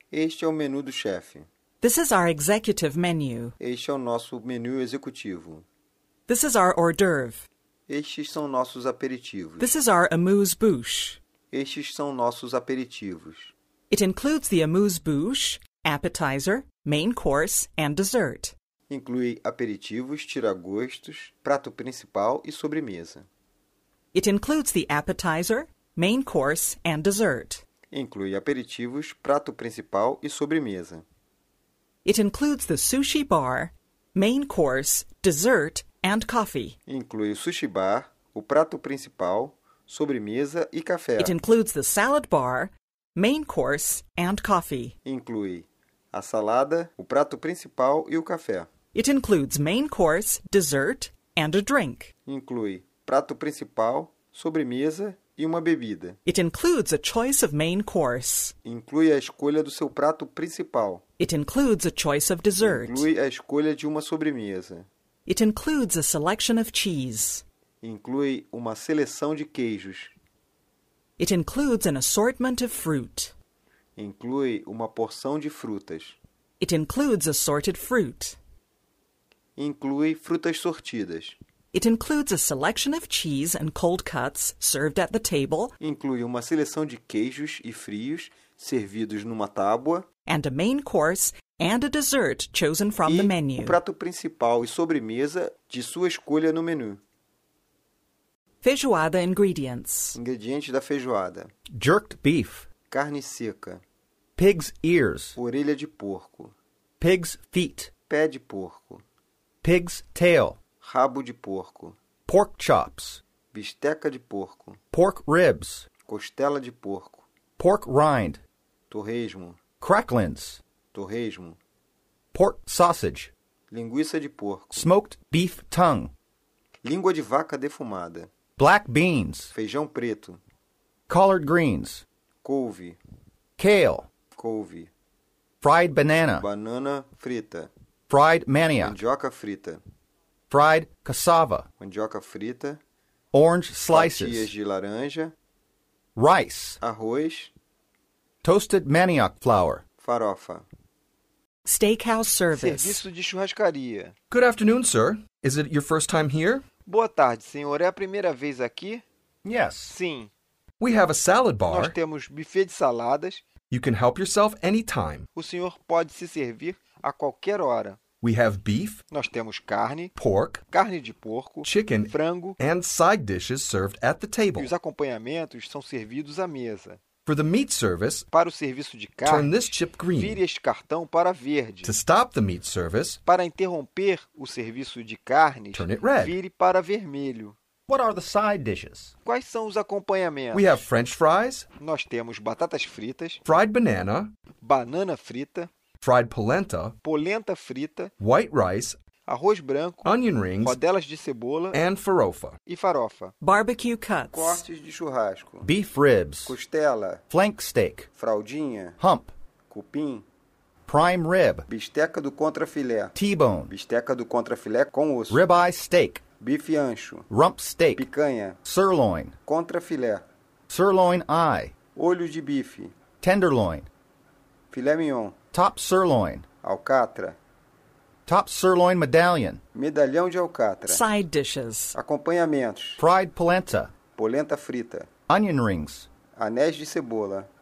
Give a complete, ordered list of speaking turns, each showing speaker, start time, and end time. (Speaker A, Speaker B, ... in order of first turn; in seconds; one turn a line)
Speaker A: 0.1-1.4
Speaker B: 1.8-3.5
Speaker A: 3.6-5.6
Speaker B: 6.3-7.5
Speaker A: 7.9-9.7
Speaker B: 9.6-11.2
Speaker A: 11.5-13.5
Speaker B: 13.9-18.5
Speaker A: 18.9-23.2
Speaker B: 24.1-27.6
Speaker A: 27.9-31.1
Speaker B: 32.0-36.8
Speaker A: 36.9-41.3
Speaker B: 41.2-45.0
Speaker A: 45.0-48.7
Speaker B: 48.9-52.1
Speaker A: 52.2-56.2
Speaker B: 56.2-58.5
Speaker A: 58.6-61.0
Speaker B: 61.2-63.1
Speaker A: 62.6-64.9
Speaker B: 65.3-67.4
Speaker A: 67.8-70.1
Speaker B: 71.2-73.3
Speaker A: 74.0-76.2
Speaker B: 76.6-78.4
Speaker A: 79.6-81.4
Speaker B: 81.7-85.7
Speaker A: 85.8-90.1
Speaker B: 90.3-93.8
Speaker A: 93.0-97.0
Speaker B: 98.6-100.2
Speaker A: 100.1-101.5
Speaker C: 101.7-102.7
Speaker A: 102.9-103.8
Speaker C: 104.4-105.4
Speaker A: 105.4-106.5
Speaker C: 107.0-107.9
Speaker A: 108.1-109.0
Speaker C: 109.6-110.6
Speaker A: 110.8-112.0
Speaker C: 112.3-113.2
Speaker A: 113.5-114.8
Speaker C: 114.9-115.9
Speaker A: 116.1-117.3
Speaker C: 117.6-118.4
Speaker A: 118.9-119.6
Speaker C: 119.8-120.6
Speaker A: 120.9-121.6
Speaker C: 122.3-123.3
Speaker A: 123.7-124.9
Speaker C: 124.7-126.1
Speaker A: 126.8-128.3
Speaker C: 128.6-129.5
Speaker A: 129.5-130.4
Speaker C: 131.1-132.0
Speaker A: 132.4-133.0
Speaker C: 133.6-134.1
Speaker A: 134.3-134.9
Speaker C: 135.6-136.5
Speaker A: 136.4-137.7
Speaker C: 138.1-139.0
Speaker A: 138.8-139.8
Speaker C: 140.5-141.7
Speaker A: 141.8-142.8
Speaker C: 143.3-144.5
Speaker A: 143.9-145.3
Speaker C: 146.2-146.8
Speaker A: 146.8-147.5
Speaker C: 148.4-149.8
Speaker A: 150.0-150.7
Speaker B: 151.7-153.0
Speaker A: 152.5-154.2
Speaker D: 154.3-156.7
Speaker A: 156.9-159.0
Speaker C: 159.4-160.0
Speaker A: 159.9-160.3
Speaker D: 160.8-162.0
Speaker A: 161.7-163.4
Speaker D: 163.7-165.3
Speaker A: 165.3-168.0
Speaker D: 168.2-169.0
Speaker A: 169.1-170.1
Speaker D: 170.2-170.6
Speaker A: 170.7-172.6
Speaker D: 171.6-174.7
Speaker A: 174.6-177.0
Speaker D: 177.2-178.3
Speaker A: 178.3-179.6
Speaker D: 179.2-180.4
Speaker A: 180.2-182.0
Speaker D: 181.8-183.2
Speaker A: 183.2-187.6
Speaker D: 185.7-186.4
Speaker C: 187.9-189.1
Speaker A: 189.2-190.8
Speaker D: 190.5-191.7
Speaker A: 191.8-193.4
Speaker D: 193.4-194.3
Speaker A: 194.6-195.7
Speaker D: 196.0-197.0
Speaker A: 197.0-198.1
Speaker D: 198.2-199.0
Speaker A: 199.2-200.1
Speaker D: 200.0-200.8
Speaker A: 200.6-201.8
Speaker D: 201.7-202.6
Speaker A: 202.7-203.3
Speaker B: 203.4-204.6
Speaker A: 204.3-205.7
Speaker C: 205.6-206.6
Speaker A: 206.5-207.2
Speaker C: 207.3-208.1
Speaker A: 208.2-209.0
Speaker C: 209.0-209.3
Speaker A: 209.7-210.2
Speaker C: 210.9-211.7
Speaker A: 211.7-213.1
Speaker C: 213.2-213.7
Speaker A: 213.7-215.4
Speaker C: 215.3-216.2
Speaker A: 216.4-217.3
Speaker C: 217.3-218.1
Speaker A: 218.0-218.6
Speaker C: 218.6-219.4
Speaker A: 219.4-220.3
Speaker C: 220.7-221.7
Speaker A: 222.0-223.0
Speaker C: 223.2-223.9
Speaker A: 224.7-225.4
Speaker C: 225.5-226.5
Speaker A: 226.6-227.4
Speaker C: 228.2-229.6
Speaker A: 229.7-231.0
Speaker B: 230.9-231.9
Speaker A: 231.9-233.0
Speaker C: 233.0-233.9
Speaker A: 234.2-235.1
Speaker C: 235.3-236.1
Speaker A: 236.4-237.5